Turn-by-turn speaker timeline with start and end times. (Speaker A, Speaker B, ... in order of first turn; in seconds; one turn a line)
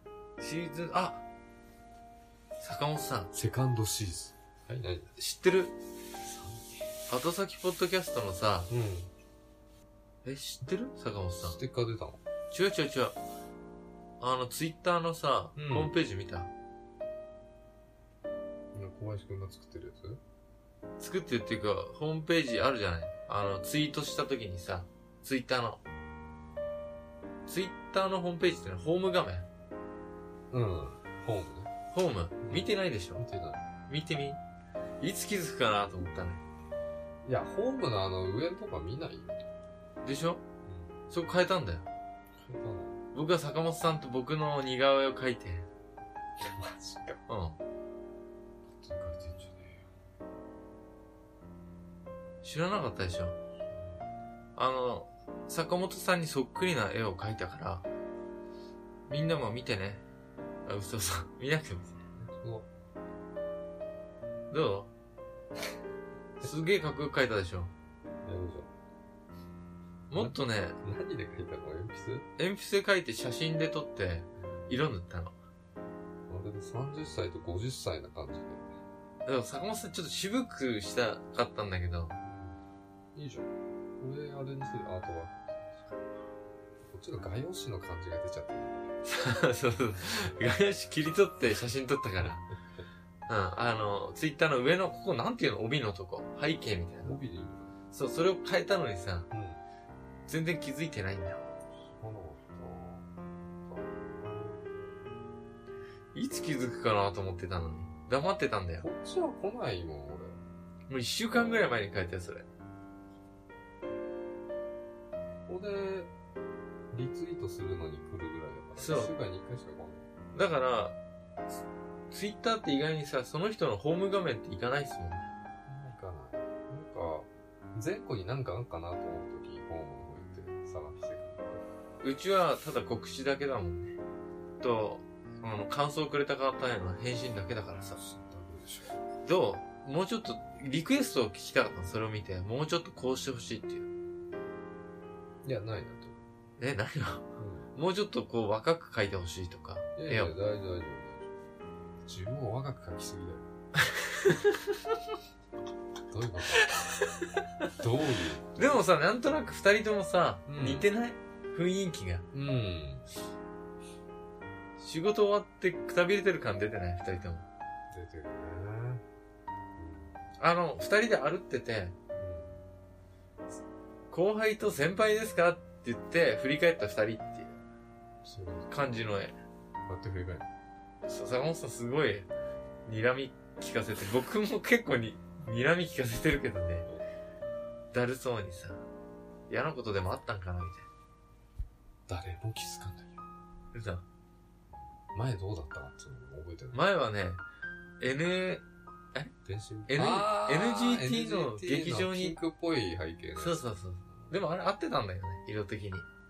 Speaker A: 0.4-1.2
Speaker A: 2.6-3.3
Speaker B: 3.3-5.1
Speaker A: 5.2-5.7
Speaker B: 6.2-6.9
Speaker A: 7.1-8.7
Speaker B: 8.7-9.1
Speaker A: 10.2-11.6
Speaker B: 11.4-12.2
Speaker A: 12.5-13.2
Speaker A: 14.2-16.5
Speaker B: 15.6-15.9
Speaker B: 18.7-20.2
Speaker A: 21.0-25.8
Speaker A: 27.5-29.5
Speaker B: 30.5-31.7
Speaker A: 31.9-33.2
Speaker B: 32.4-33.7
Speaker A: 33.9-34.4
Speaker A: 35.0-36.4
Speaker B: 37.2-39.5
Speaker A: 40.0-40.4
Speaker B: 40.6-41.0
Speaker A: 41.1-41.9
Speaker B: 42.4-43.0
Speaker A: 43.1-45.7
Speaker B: 46.4-47.2
Speaker A: 47.3-47.6
Speaker B: 48.8-49.9
Speaker A: 52.4-53.4
Speaker A: 54.6-57.9
Speaker A: 59.1-60.0
Speaker A: 60.6-62.0
Speaker B: 62.2-62.7
Speaker A: 64.5-64.9
Speaker A: 66.4-67.7
Speaker B: 68.2-68.7
Speaker A: 70.1-70.8
Speaker B: 70.1-72.3
Speaker A: 72.4-75.3
Speaker B: 74.4-74.8
Speaker B: 76.3-78.8
Speaker A: 79.3-82.2
Speaker B: 82.2-82.6
Speaker B: 83.1-86.0
Speaker B: 86.8-88.9
Speaker A: 89.0-92.5
Speaker A: 93.3-97.2
Speaker B: 97.0-97.8
Speaker A: 97.9-99.3
Speaker B: 99.3-99.6
Speaker A: 100.3-101.4
Speaker B: 101.8-105.2
Speaker A: 106.1-108.9
Speaker B: 108.8-110.4
Speaker A: 110.9-112.5
Speaker B: 115.5-116.1
Speaker B: 116.9-120.1
Speaker A: 118.8-119.1
Speaker A: 120.3-121.0
Speaker A: 122.1-125.3
Speaker B: 125.7-131.6
Speaker A: 132.0-134.0
Speaker A: 134.6-138.0
Speaker B: 137.9-139.0
Speaker A: 139.2-143.9
Speaker B: 145.4-146.3
Speaker A: 146.6-150.3
Speaker B: 147.4-147.7
Speaker B: 149.9-151.3
Speaker B: 152.0-153.5
Speaker A: 154.0-155.0
Speaker B: 156.1-156.8
Speaker A: 156.6-157.7
Speaker B: 157.7-158.9
Speaker A: 158.6-162.3
Speaker B: 160.5-160.9
Speaker B: 162.3-163.1
Speaker A: 164.8-167.4
Speaker B: 167.9-169.0
Speaker B: 169.8-170.2
Speaker A: 170.4-171.9
Speaker B: 172.1-172.7
Speaker A: 174.1-177.6
Speaker B: 178.2-178.7
Speaker A: 178.7-179.4
Speaker B: 179.9-180.5
Speaker A: 181.1-182.3
Speaker A: 182.9-186.9
Speaker A: 187.9-188.8
Speaker A: 189.5-190.9
Speaker B: 192.1-193.2
Speaker A: 193.7-194.1
Speaker B: 195.1-196.8
Speaker A: 196.7-197.4
Speaker A: 198.0-199.3
Speaker B: 199.4-204.4
Speaker A: 199.9-202.4
Speaker A: 203.4-206.1